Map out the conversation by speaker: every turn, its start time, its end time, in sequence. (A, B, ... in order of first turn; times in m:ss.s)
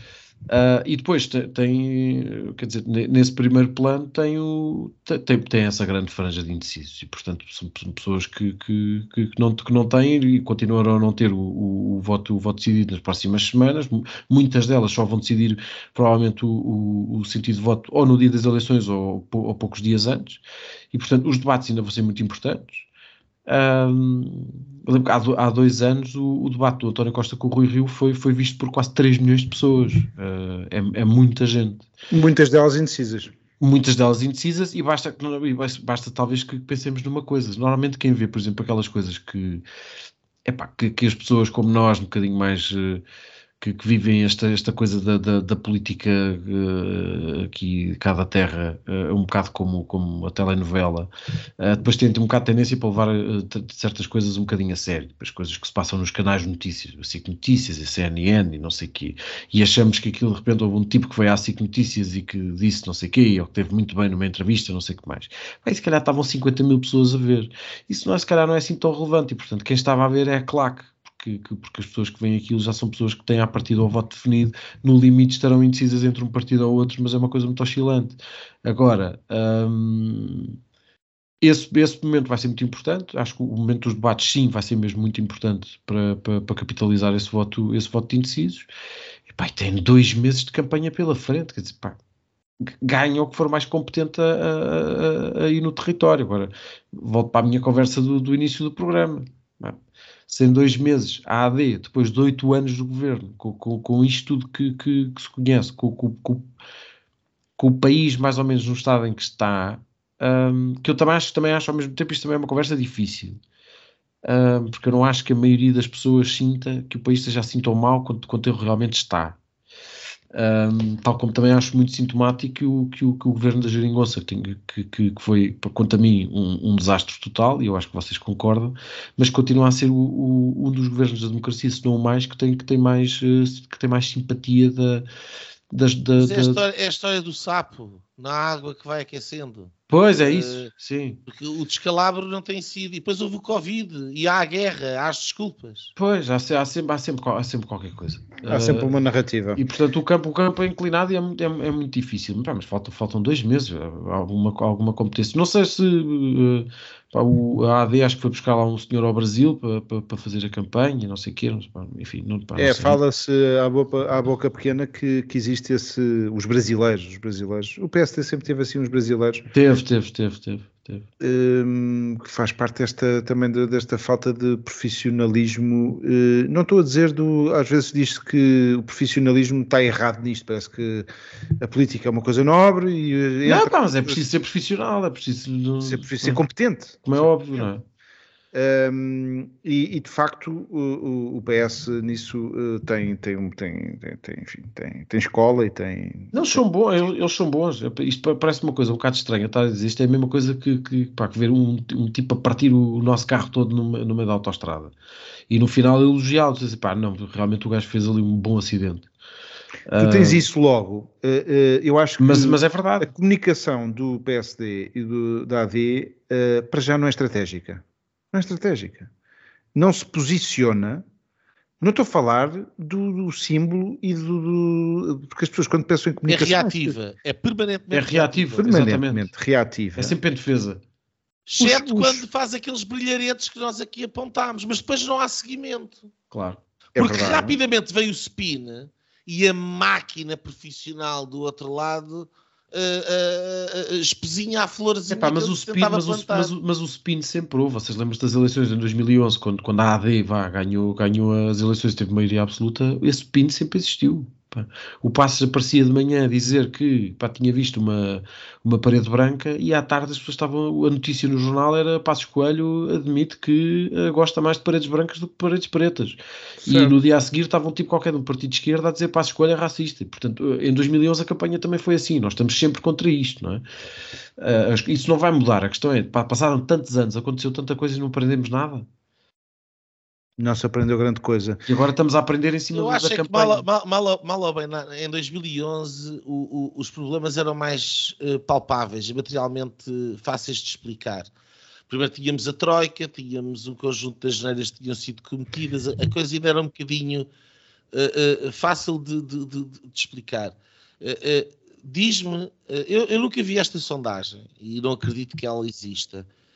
0:00.5-0:22.9 A
0:23.5-0:31.9 A
0:32.1-0:33.3 B
0:33.6-0:39.6 A
0:40.4-0:43.0 A
0:43.6-1:20.6 A
1:21.4-1:28.7 A
1:29.3-1:32.0 A
1:32.6-1:46.5 A
1:47.6-1:53.4 A
1:54.2-1:59.4 A
2:00.3-2:15.1 A
2:15.7-2:16.6 A
2:16.2-2:20.7 C
2:19.9-2:21.2 A
2:21.3-2:25.9 C
2:26.0-2:29.0 A
2:28.4-2:29.6 B
2:29.6-2:43.0 A
2:42.6-2:49.4 B
2:49.5-2:51.1 A
2:51.2-3:01.1 B
3:01.6-3:04.2 B
3:03.4-3:06.4 A
3:05.8-3:07.7 B
3:07.0-3:07.8 A
3:08.5-3:16.3 B
3:16.3-3:24.9 A
3:25.5-3:29.1 A
3:29.9-3:30.4 A
3:30.0-3:39.1 B
3:32.2-3:33.1 A
3:39.7-3:41.0 B
3:41.8-3:47.0 B
3:46.3-3:48.6 C
3:47.9-3:49.3 A
3:48.6-3:50.2 B
3:50.0-3:50.8 A
3:51.5-3:56.1 C
3:51.6-3:52.2 B
3:56.3-3:56.6 A
3:56.9-3:57.6 B
3:57.0-4:06.5 C
4:05.1-4:33.6 A
4:26.6-4:27.0 B
4:34.4-4:38.9 A
4:40.4-4:41.6 B
4:41.7-4:43.6 A
4:42.7-4:51.3 C
4:51.9-4:57.3 C
4:57.9-5:06.3 C